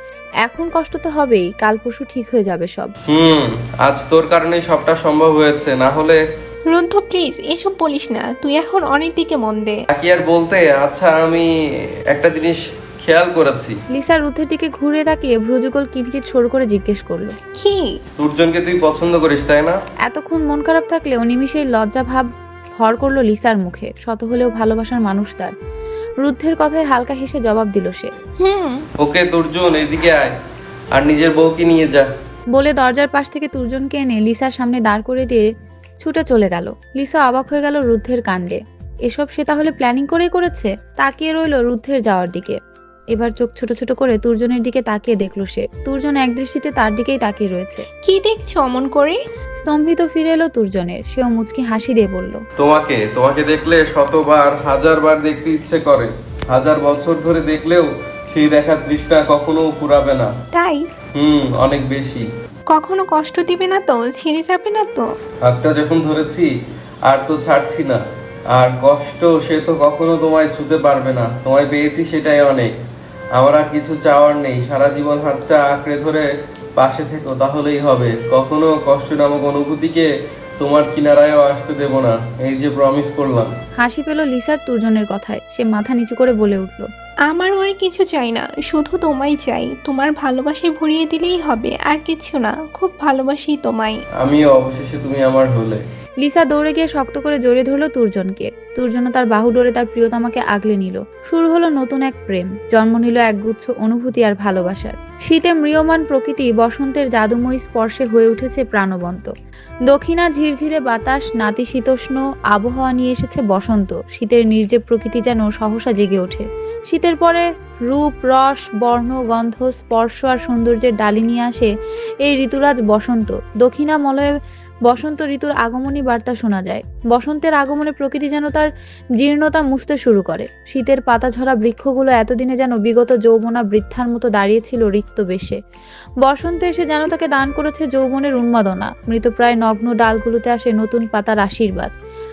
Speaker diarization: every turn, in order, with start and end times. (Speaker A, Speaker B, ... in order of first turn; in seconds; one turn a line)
Speaker A: 0.4-2.9
Speaker B: 3.1-6.2
Speaker C: 6.7-9.8
Speaker B: 9.9-11.5
Speaker B: 12.1-13.8
Speaker A: 13.9-17.3
Speaker C: 17.6-17.9
Speaker B: 18.2-19.8
Speaker A: 20.1-22.3
Speaker A: 22.8-25.5
Speaker A: 26.2-28.1
Speaker C: 28.4-28.8
Speaker B: 29.0-30.3
Speaker B: 30.9-32.1
Speaker A: 32.5-35.5
Speaker A: 36.0-42.6
Speaker A: 43.1-47.9
Speaker C: 48.0-49.2
Speaker A: 49.6-52.4
Speaker B: 52.6-60.3
Speaker C: 60.5-60.8
Speaker B: 61.1-62.3
Speaker C: 62.7-65.0
Speaker B: 65.4-66.5
Speaker B: 67.0-72.7
Speaker B: 73.3-83.5
Speaker A: 83.8-86.8
Speaker C: 87.3-94.0
Speaker B: 94.2-95.8
Speaker A: 96.2-109.3
Speaker A: 109.9-121.7
Speaker A: 122.2-124.3
Speaker A: 124.8-135.6
Speaker A: 136.2-141.9